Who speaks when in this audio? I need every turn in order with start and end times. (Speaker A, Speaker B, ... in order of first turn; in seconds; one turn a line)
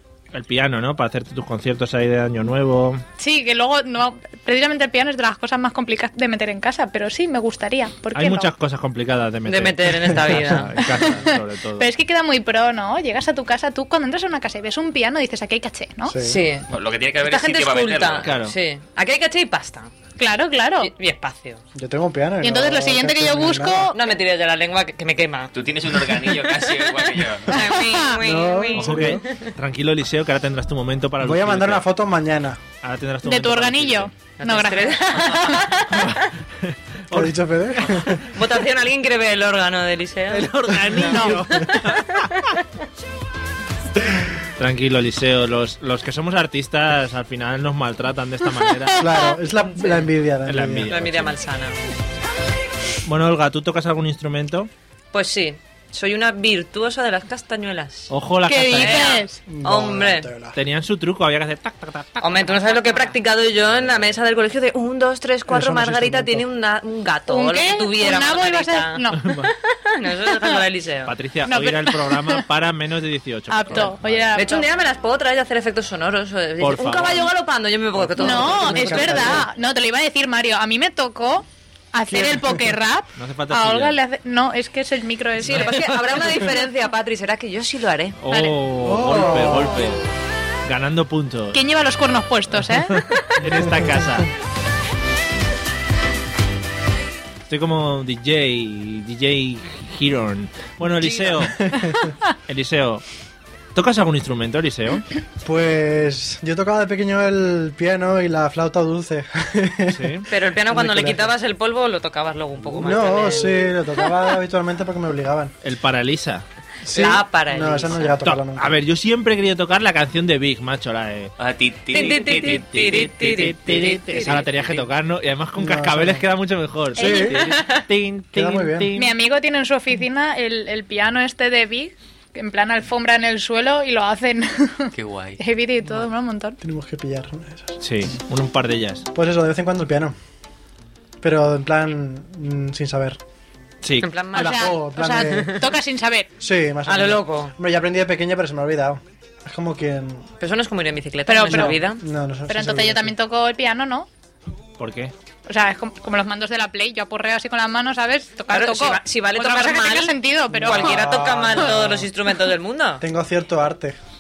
Speaker A: 0.3-3.0
Speaker B: 3.2-8.5
Speaker A: 8.2-11.9
Speaker C: 9.5-10.8
Speaker B: 10.8-16.1
Speaker D: 16.1-16.4
Speaker C: 16.2-16.7
Speaker E: 16.7-18.3
Speaker C: 17.2-19.9
Speaker A: 18.2-18.6
Speaker B: 20.2-20.9
Speaker C: 20.8-21.6
Speaker D: 21.8-23.9
Speaker B: 22.4-24.0
Speaker C: 23.9-29.5
Speaker E: 25.5-27.6
Speaker B: 27.8-28.2
Speaker D: 28.2-29.2
Speaker A: 28.7-31.9
Speaker D: 31.2-32.6
Speaker A: 32.8-34.1
Speaker B: 33.2-36.1
Speaker C: 34.4-36.1
Speaker A: 35.9-38.1
Speaker D: 37.1-38.2
Speaker C: 38.1-40.5
Speaker A: 40.3-42.4
Speaker D: 40.9-41.8
Speaker A: 44.6-49.3
Speaker D: 49.0-50.9
Speaker A: 50.5-51.4
Speaker C: 50.9-51.8
Speaker A: 53.0-54.7
Speaker C: 55.1-58.1
Speaker A: 58.1-59.2
Speaker B: 58.5-59.4
Speaker C: 58.7-60.3
Speaker D: 59.5-60.6
Speaker A: 60.5-63.1
Speaker C: 62.2-71.1
Speaker A: 63.6-64.1
Speaker D: 65.5-66.5
Speaker B: 67.3-69.2
Speaker A: 69.1-69.5
Speaker A: 71.1-74.3
Speaker B: 71.5-72.4
Speaker B: 73.5-74.7
Speaker C: 74.3-79.5
Speaker A: 76.6-77.3
Speaker A: 78.0-79.4
Speaker B: 78.2-85.8
Speaker A: 83.2-84.0
Speaker C: 85.4-88.2
Speaker A: 88.2-90.0
Speaker B: 88.3-88.6
Speaker D: 88.8-89.9
Speaker A: 90.7-91.6
Speaker B: 91.5-93.4
Speaker A: 92.5-94.3
Speaker A: 97.5-101.7
Speaker D: 101.4-102.1
Speaker A: 102.5-103.0
Speaker A: 103.8-105.0
Speaker D: 105.4-111.3
Speaker A: 109.9-110.2
Speaker C: 110.3-113.8
Speaker D: 112.6-115.5
Speaker A: 115.6-116.4
Speaker D: 116.8-118.8
Speaker C: 116.9-118.2
Speaker A: 118.2-121.3
Speaker E: 121.4-122.9
Speaker C: 121.9-124.9
Speaker A: 122.0-129.1
Speaker D: 125.6-126.2
Speaker D: 127.0-127.5
Speaker B: 127.0-127.5
Speaker D: 128.3-128.9
Speaker B: 128.9-136.6
Speaker E: 134.9-135.4
Speaker D: 136.6-137.8
Speaker A: 137.8-139.1
Speaker D: 139.1-140.2
Speaker D: 141.2-143.2
Speaker A: 143.8-144.1
Speaker C: 144.0-145.5
Speaker D: 144.3-145.7
Speaker B: 144.3-146.3
Speaker D: 146.4-150.3
Speaker C: 146.9-147.6
Speaker C: 150.4-152.0
Speaker B: 151.3-151.9
Speaker D: 151.5-153.2
Speaker B: 152.5-154.1
Speaker A: 154.8-155.1
Speaker B: 155.5-161.2
Speaker C: 158.5-163.0
Speaker D: 160.5-162.1
Speaker D: 163.0-164.0